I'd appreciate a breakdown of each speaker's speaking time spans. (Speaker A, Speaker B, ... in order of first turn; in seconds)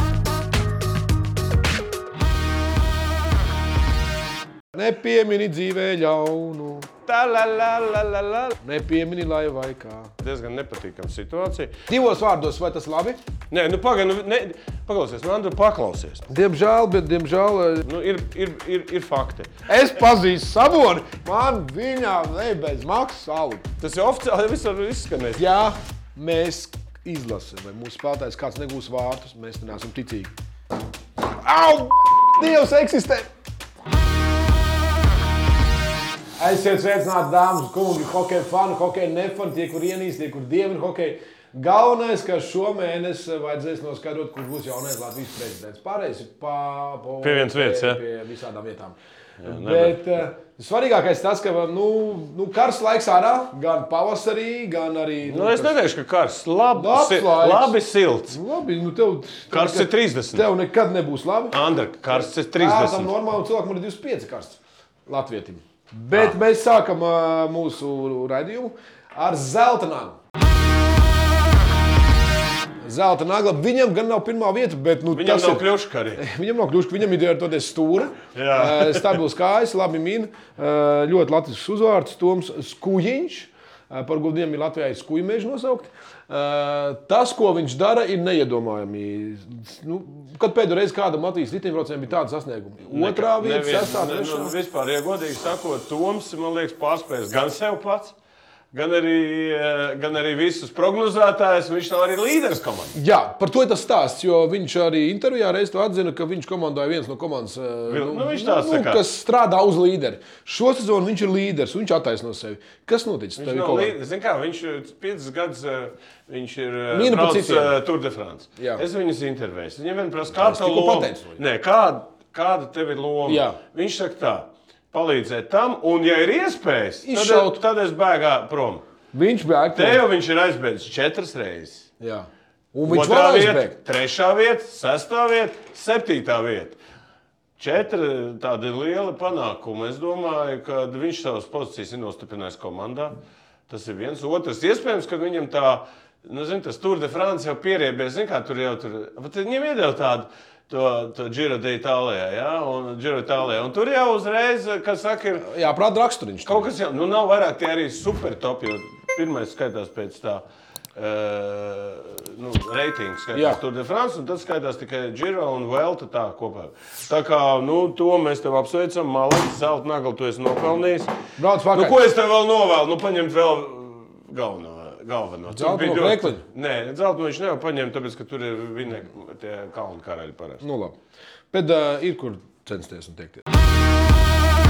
Speaker A: 4.7-6.9, 8.6-10.1, 11.9-13.2, 16.3-17.9, 19.6-23.7, 25.4-30.3, 31.2-33.3, 36.4-55.7, 56.7-57.8, 58.3-61.6, 62.1-70.2, 72.8-94.5, 102.9-113.9, 116.9-117.8, 118.6-118.8, 120.3-121.4, 123.2-123.6, 127.0-127.6, 129.1-130.0, 132.0-133.8, 155.4-156.7, 163.3-163.6, 171.4-172.0, 175.5-176.4, 180.6-181.0, 181.5-183.4
Speaker B: 7.0-8.6, 10.2-11.7, 13.5-16.2, 17.8-19.5, 23.8-25.4, 47.2-48.0, 49.4-50.0, 55.2-58.4, 59.5-60.5, 61.5-63.1, 75.1-76.2, 78.3-79.1, 92.9-98.1, 98.7-102.9, 107.9-109.0, 113.4-128.8, 129.7-131.9, 132.8-136.8, 137.6-143.2, 143.7-155.5, 156.4-160.4, 160.9-171.1, 171.7-180.6